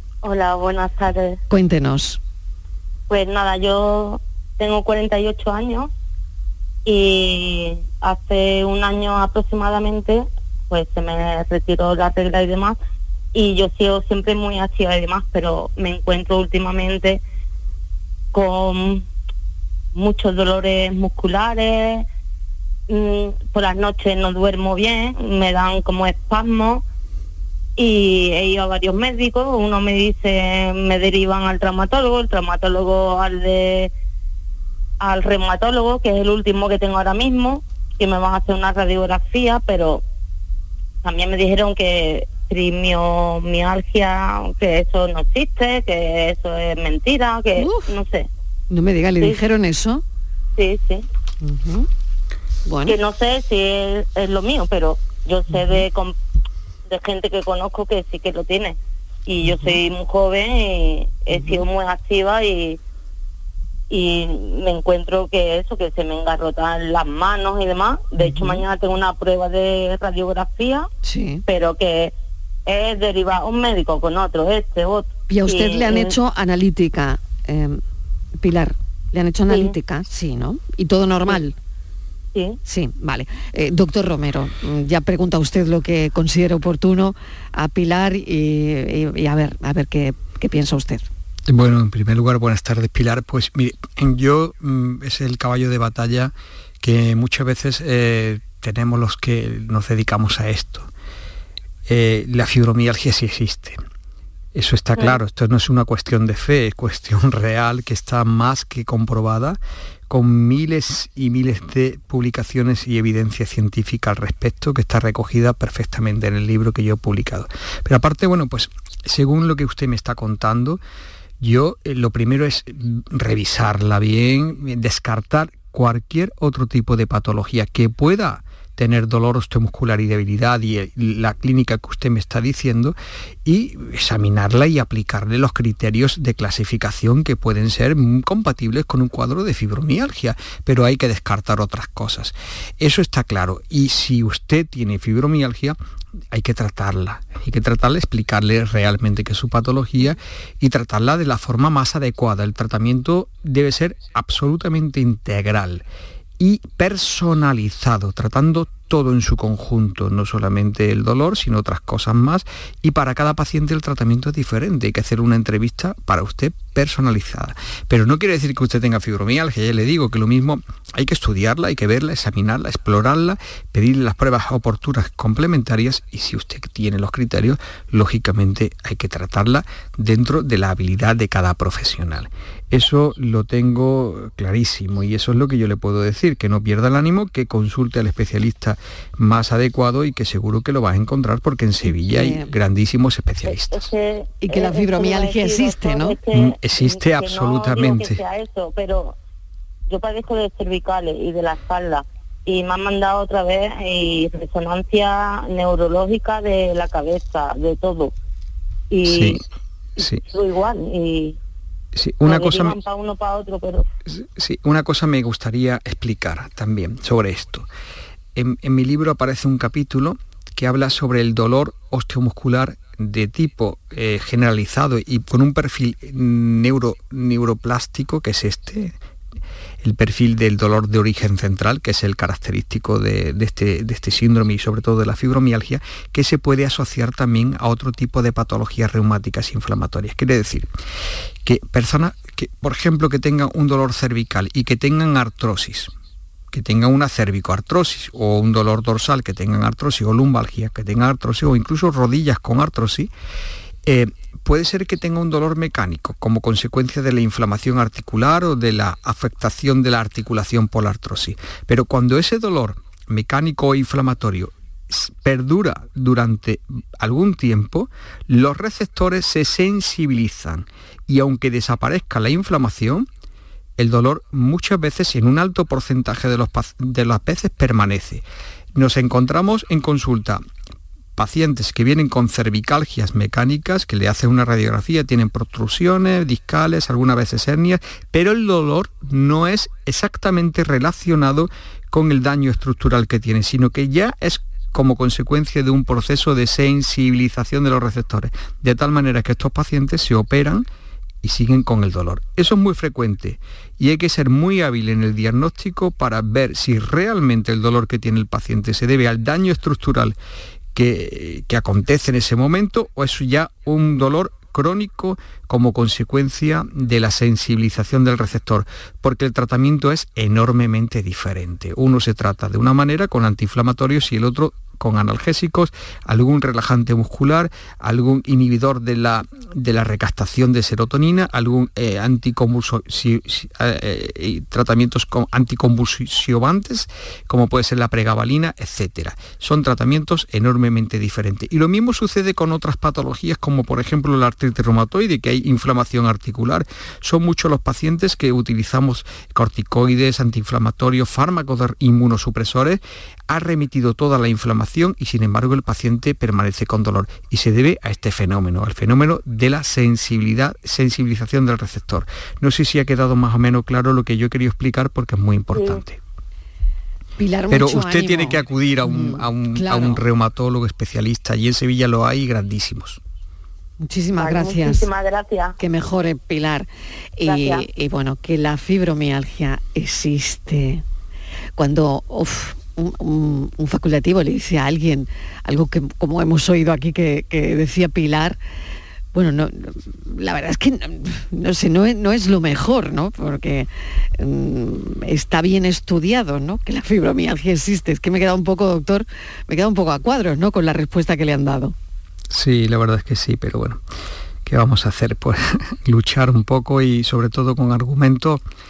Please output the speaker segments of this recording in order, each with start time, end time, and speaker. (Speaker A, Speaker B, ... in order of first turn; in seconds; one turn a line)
Speaker A: 0.2-1.4
Speaker B: 1.5-2.2
Speaker A: 3.1-5.9
Speaker A: 6.8-12.8
Speaker A: 13.3-17.2
Speaker A: 18.3-19.0
Speaker A: 19.9-22.1
Speaker A: 22.9-26.8
Speaker A: 27.8-33.9
Speaker A: 35.0-40.0
Speaker A: 41.0-48.3
Speaker B: 47.6-47.9
Speaker B: 48.7-50.0
Speaker A: 50.5-51.0
Speaker B: 51.4-51.9
Speaker B: 52.6-53.0
Speaker A: 52.8-56.1
Speaker B: 55.5-55.8
Speaker A: 56.9-62.8
Speaker B: 59.5-59.7
Speaker B: 61.3-61.6
Speaker A: 63.9-70.9
Speaker B: 68.2-68.6
Speaker B: 71.0-71.4
Speaker A: 71.5-72.1
Speaker A: 72.7-76.1
Speaker B: 75.3-77.8
Speaker B: 78.4-81.5
Speaker A: 79.5-79.7
Speaker A: 82.3-82.6
Speaker B: 82.6-91.0
Speaker C: 91.5-100.9
Speaker C: 101.8-103.8
Speaker C: 104.5-109.6
Speaker C: 110.1-120.8
Speaker C: 121.4-145.8
Speaker C: 146.3-155.8
Speaker C: 156.4-193.9
Speaker B: 191.9-192.5
Speaker A: 193.4-199.2
Speaker B: 194.4-196.2
Speaker C: 196.3-198.2
Speaker A: 199.9-208.1
Speaker A: 208.9-209.4
Speaker C: 209.0-209.4
Speaker A: 210.0-211.3
Speaker C: 211.9-212.8
Speaker A: 212.2-213.8
Speaker C: 214.1-217.7
Speaker C: 218.3-228.9
Speaker C: 229.8-240.7
Speaker C: 241.4-245.9
Speaker C: 246.5-253.1
Speaker C: 253.8-273.1
Speaker C: 273.8-280.4
Speaker C: 281.1-300.7
Speaker C: 301.2-310.1
Speaker C: 310.7-366.0
Speaker B: 367.2-370.0
Speaker C: 367.5-373.0
Speaker B: 373.8-374.9
Speaker A: 374.2-375.6
Speaker B: 375.6-380.8
Speaker A: 377.2-377.6
Speaker B: 381.6-388.4
Speaker B: 389.1-401.7
Speaker C: 402.3-403.8
Speaker C: 404.4-408.4